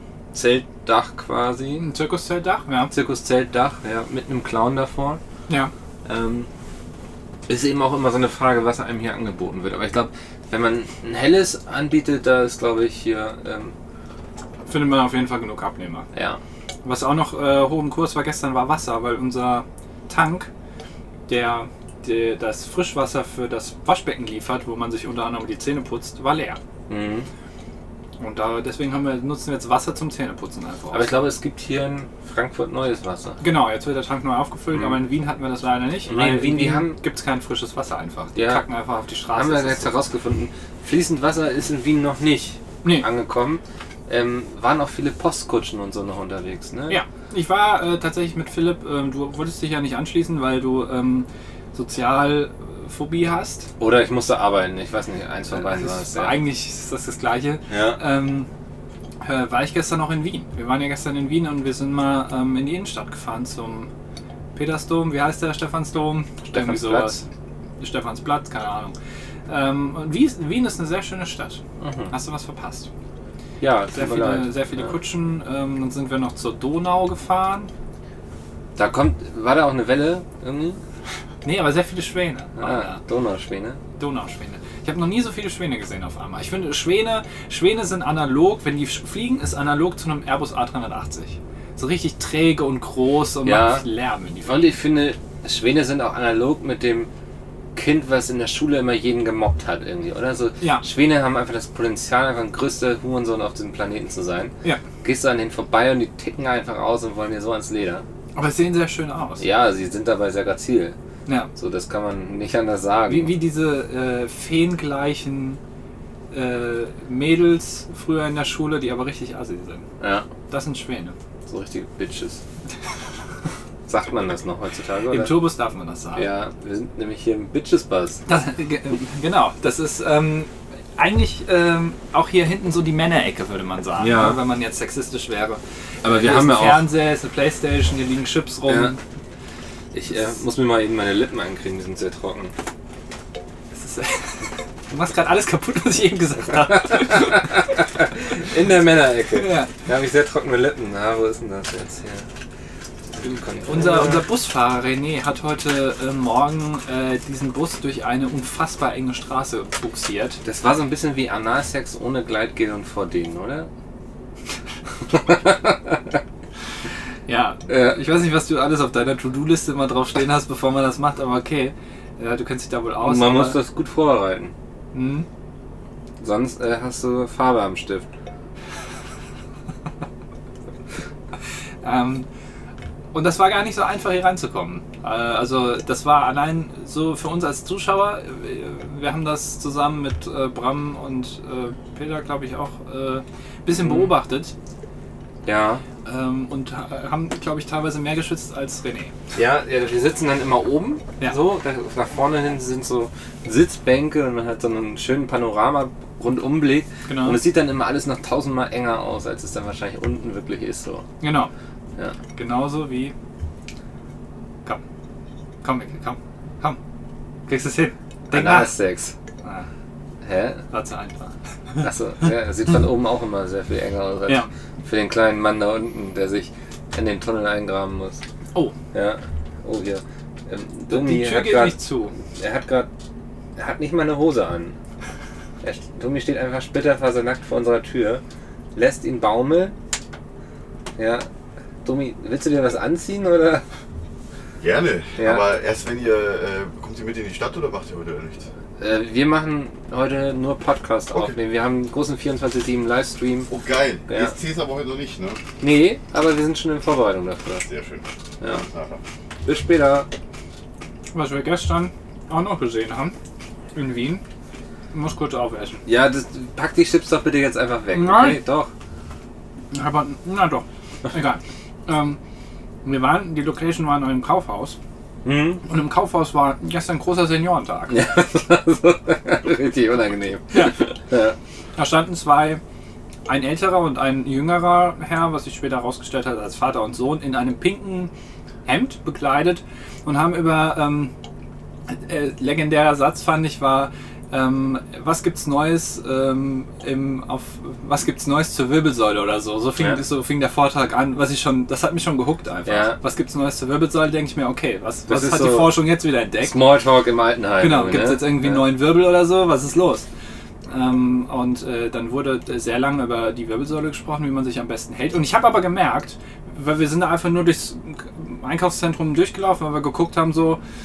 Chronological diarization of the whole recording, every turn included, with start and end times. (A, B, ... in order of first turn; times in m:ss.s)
0:00.3-0:01.8 A
0:01.8-0:02.9 B
0:02.9-0:05.2 A
0:06.0-0:06.5 A
0:07.5-0:13.7 A
0:14.7-0:16.1 B
0:16.1-0:16.4 A
0:16.8-0:20.5 B
0:21.3-0:26.6 B
0:26.9-0:27.3 A
0:28.2-0:31.2 B
0:30.9-0:33.4 A
0:33.4-0:40.0 B
0:36.0-0:37.0 A
0:38.4-0:38.6 A
0:39.3-0:47.0 A
0:46.9-0:53.7 B
0:53.8-0:56.4 A
0:55.6-0:58.5 B
0:57.7-0:58.0 A
0:59.2-1:03.9 B
1:04.6-1:07.2 B
1:06.5-1:07.2 A
1:07.8-1:09.0 B
1:09.5-1:11.6 B
1:11.8-1:12.1 A
1:12.1-1:12.9 B
1:13.6-1:14.9 A
1:14.0-1:17.7 B
1:18.8-1:20.8 A
1:21.4-1:23.0 B
1:22.6-1:23.8 A
1:24.0-1:34.7 B
1:33.4-1:33.8 A
1:34.4-1:37.1 A
1:37.8-1:48.0 A
1:48.4-1:49.4 B
1:49.4-1:51.0 A
1:51.3-1:51.5 B
1:51.6-1:53.3 A
1:53.1-1:55.6 B
1:56.3-1:59.8 B
2:00.0-2:00.3 A
2:00.5-2:01.2 B
2:01.5-2:02.4 A
2:03.9-2:05.4 A
2:05.1-2:06.3 B
2:06.2-2:08.2 A
2:08.3-2:19.0 B
2:14.0-2:14.4 A
2:16.0-2:16.9 A
2:18.7-2:18.9 A
2:19.9-2:22.5 A
2:23.7-2:24.4 B
2:24.9-2:27.7 B
2:27.8-2:32.3 A
2:29.3-2:29.7 B
2:33.2-2:34.2 A
2:33.6-2:40.4 B
2:40.4-2:43.7 A
2:45.1-2:46.0 A
2:47.3-2:53.6 B
2:47.7-2:48.0 A
2:53.0-2:54.5 A
2:54.9-2:55.3 B
2:56.2-2:58.1 A
3:01.8-3:02.3 B
3:03.1-3:14.5 B
3:13.8-3:14.1 A
3:15.4-3:15.8 A
3:16.0-3:19.1 B
3:19.4-3:31.0 A
3:27.1-3:27.4 B
3:31.2-3:31.5 B
3:32.4-3:33.1 B
3:35.6-3:36.8 B
3:37.5-3:38.8 B
3:38.3-3:39.1 A
3:40.2-3:40.6 A
3:40.7-3:41.9 B
3:41.8-3:48.2 A
3:48.9-3:51.8 A
3:50.9-3:52.1 B
3:52.4-3:52.9 A
3:53.6-3:54.8 A
3:55.6-3:58.2 A
3:58.8-3:59.8 A
4:01.0-4:01.3 A
4:01.8-4:03.6 A
4:04.6-4:08.5 C
4:05.2-4:05.4 A
4:08.8-4:13.5 A
4:13.5-4:15.4 C
4:14.1-4:14.3 A
4:15.6-4:17.7 A
4:17.6-4:19.0 C
4:19.5-4:20.1 A
4:21.1-4:23.2 B
4:23.8-4:24.2 B
4:24.9-4:25.8 B
4:25.9-4:28.7 A
4:27.9-4:28.4 B
4:29.7-4:32.2 B
4:32.8-4:34.8 B
4:35.2-4:35.6 A
4:35.7-4:38.0 B
4:37.9-4:41.4 A
4:40.5-4:40.9 B
4:41.8-4:42.6 B
4:43.3-4:48.1 B
4:48.7-4:51.1 B
4:51.9-5:06.6 B
5:02.7-5:03.0 A
5:05.1-5:05.8 A
5:06.4-5:08.6 A
5:07.6-5:10.1 B
5:10.7-5:20.6 B